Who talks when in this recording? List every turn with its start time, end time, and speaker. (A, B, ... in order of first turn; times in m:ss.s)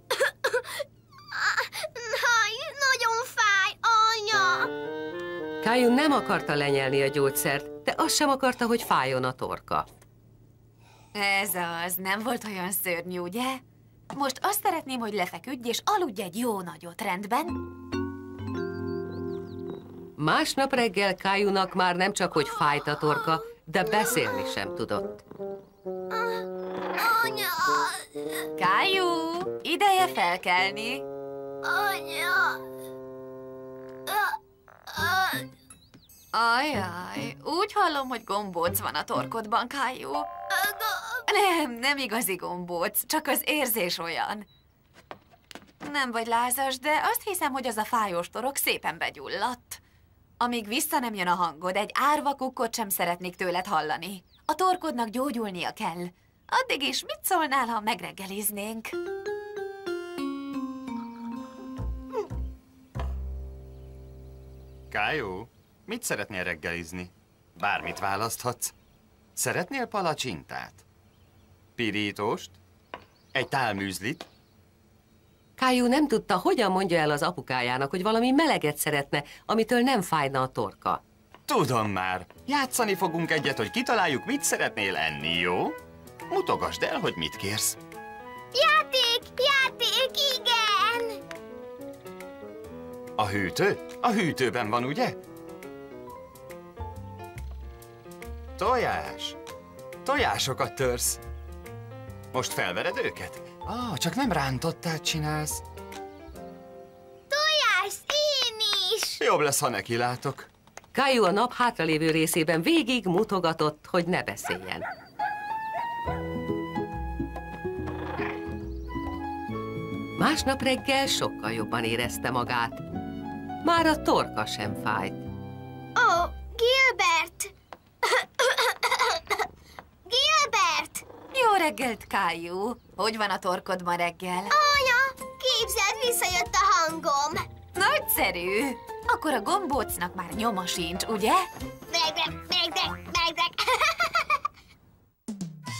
0:00.2-0:00.6 A
0:01.3-0:04.7 A
0:05.6-0:09.9 B
0:11.1-0:17.6 C
0:20.2-0:25.2 B
0:26.1-0:26.4 A
0:27.0-0:28.2 A
0:28.6-0:31.0 C
0:31.6-0:32.6 A
0:34.1-0:35.5 A
0:36.3-0:40.3 C
0:40.5-0:41.2 A
0:41.3-0:44.5 C
0:45.8-0:49.8 C
0:50.4-0:58.9 C
1:04.9-1:08.7 D
1:09.4-1:10.8 D
1:11.8-1:12.6 D
1:13.3-1:14.3 D
1:15.6-1:21.0 B
1:21.5-1:25.8 D
1:26.3-1:27.8 D
1:28.5-1:31.2 A
1:33.2-1:35.2 D
1:38.6-1:39.4 D
1:40.0-1:41.2 D
1:42.3-1:45.6 D
1:47.3-1:49.2 A
1:49.2-1:50.5 D
1:50.9-1:54.9 B
2:00.2-2:02.8 B
2:03.6-2:05.2 B
2:06.0-2:07.5 A
2:08.0-2:09.4 A
2:10.0-2:11.0 A
2:11.3-2:14.6 C
2:14.5-2:17.4 A
2:17.7-2:21.5 C
2:21.9-2:24.3 A